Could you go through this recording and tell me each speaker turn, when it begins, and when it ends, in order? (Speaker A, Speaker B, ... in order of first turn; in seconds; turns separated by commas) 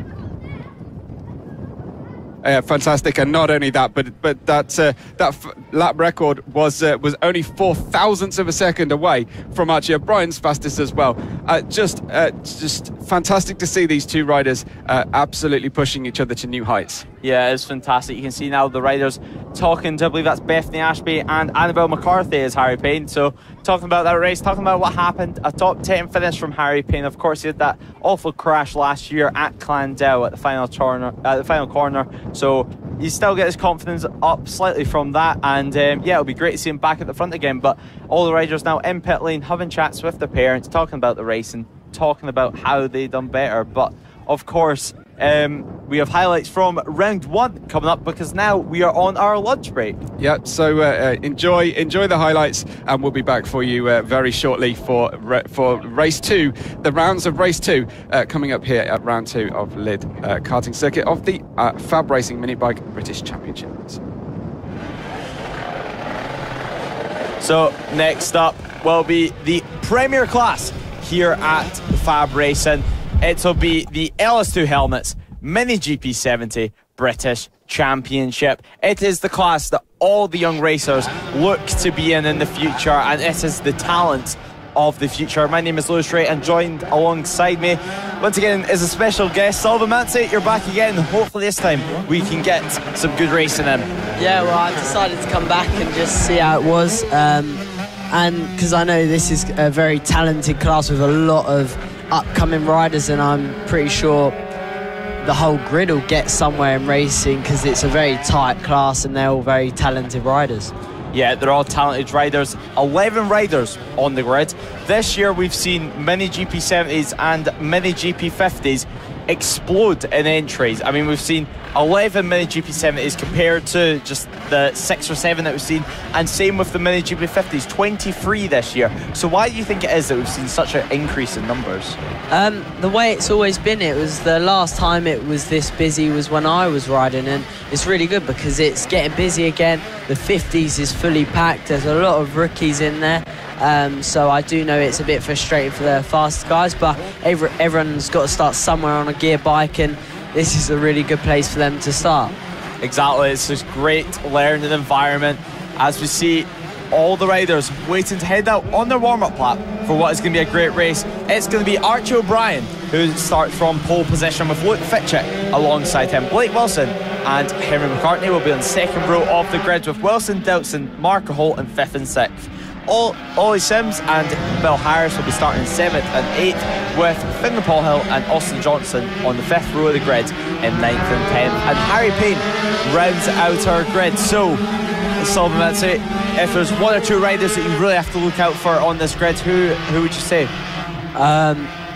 Speaker A: 2.4-17.1, Speaker B: 17.2-50.0, Speaker A: 50.2-64.0, Speaker B: 67.4-93.9, Speaker C: 94.2-104.3, Speaker C: 105.2-110.7, Speaker B: 111.1-132.0, Speaker C: 132.3-152.3, Speaker B: 152.8-184.6, Speaker B: 185.2-190.5, Speaker C: 191.2-191.7